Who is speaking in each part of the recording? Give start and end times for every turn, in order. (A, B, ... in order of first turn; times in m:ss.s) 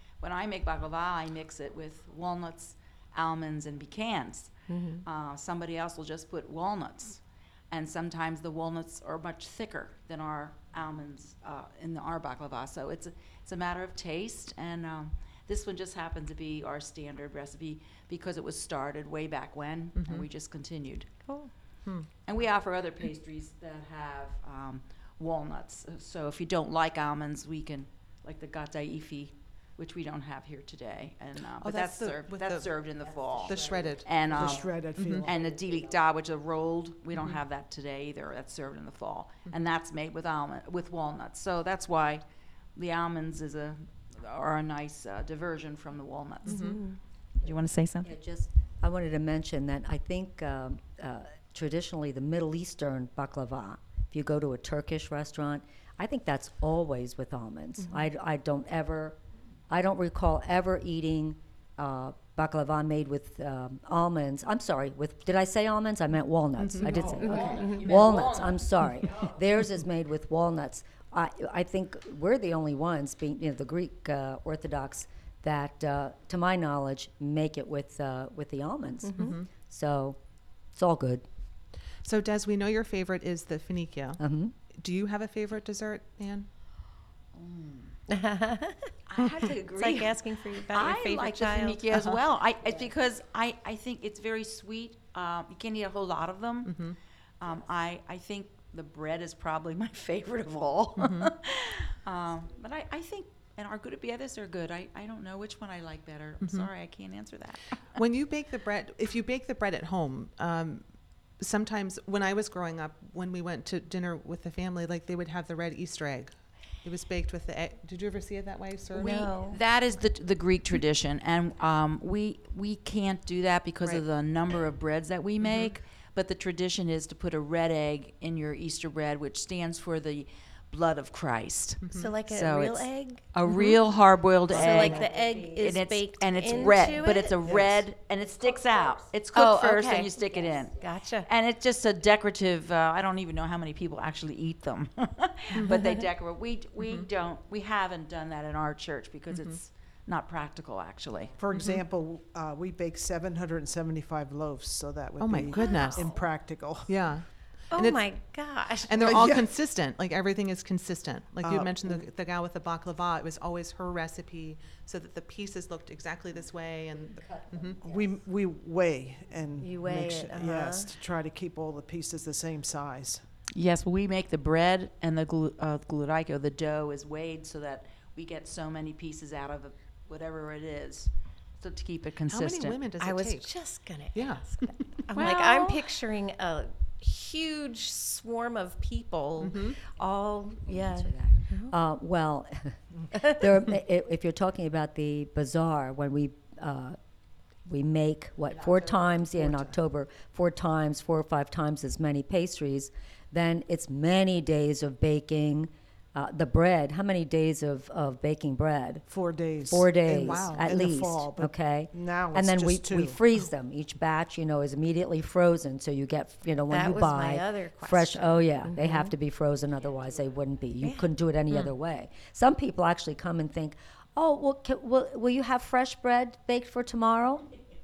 0:00.2-0:04.5 A
0:04.7-0:05.0 B
0:05.0-0:07.2 A
0:07.7-0:21.1 A
0:20.0-0:20.2 C
0:22.2-0:42.2 A
0:31.6-0:32.7 C
0:33.1-0:34.0 D
0:33.4-0:35.2 C
0:34.3-0:35.4 E
0:35.2-0:36.0 D
0:42.7-0:48.1 A
0:46.5-0:46.8 C
0:46.5-0:47.0 B
0:48.0-0:59.2 D
0:59.7-1:20.2 D
1:06.6-1:07.1 C
1:06.8-1:08.6 A
1:07.3-1:07.8 B
1:19.0-1:19.3 B
1:19.2-1:19.5 C
1:20.7-1:21.2 D
1:22.0-1:24.2 C
1:24.2-1:24.5 D
1:24.7-1:26.5 C
1:27.3-1:27.9 A
1:28.1-1:28.9 B
1:29.1-1:36.8 A
1:29.8-1:32.0 B
1:36.7-1:37.0 C
1:37.4-1:47.8 A
1:41.0-1:41.3 C
1:46.4-1:46.7 C
1:47.9-1:50.8 C
1:51.4-1:59.3 C
1:58.9-1:59.6 B
1:59.4-2:31.3 A
2:05.4-2:05.7 C
2:11.8-2:12.1 C
2:11.9-2:13.2 B
2:13.5-2:13.7 C
2:14.5-2:17.4 B
2:14.8-2:15.6 D
2:16.5-2:17.1 D
2:17.4-2:17.8 E
2:18.4-2:19.0 D
2:19.3-2:20.1 B
2:20.2-2:20.8 D
2:20.8-2:21.3 B
2:26.8-2:27.0 C
2:29.3-2:29.6 C
2:31.4-2:36.9 E
2:31.5-2:31.8 C
2:35.2-2:36.1 C
2:35.6-2:36.1 B
2:36.9-2:38.0 C
2:37.7-2:39.2 B
2:38.8-2:47.8 C
2:39.0-2:39.5 E
2:41.4-2:42.0 E
2:47.1-2:48.1 D
2:47.8-2:53.2 E
2:49.6-2:50.9 B
2:53.5-3:02.8 A
3:02.3-3:03.5 C
3:03.0-3:11.7 B
3:04.1-3:05.3 C
3:05.1-3:05.8 A
3:09.4-3:09.8 C
3:10.6-3:17.0 D
3:17.6-3:29.0 D
3:29.1-3:33.2 E
3:29.7-3:47.5 D
3:30.1-3:30.7 C
3:36.7-3:39.1 B
3:40.8-3:41.1 B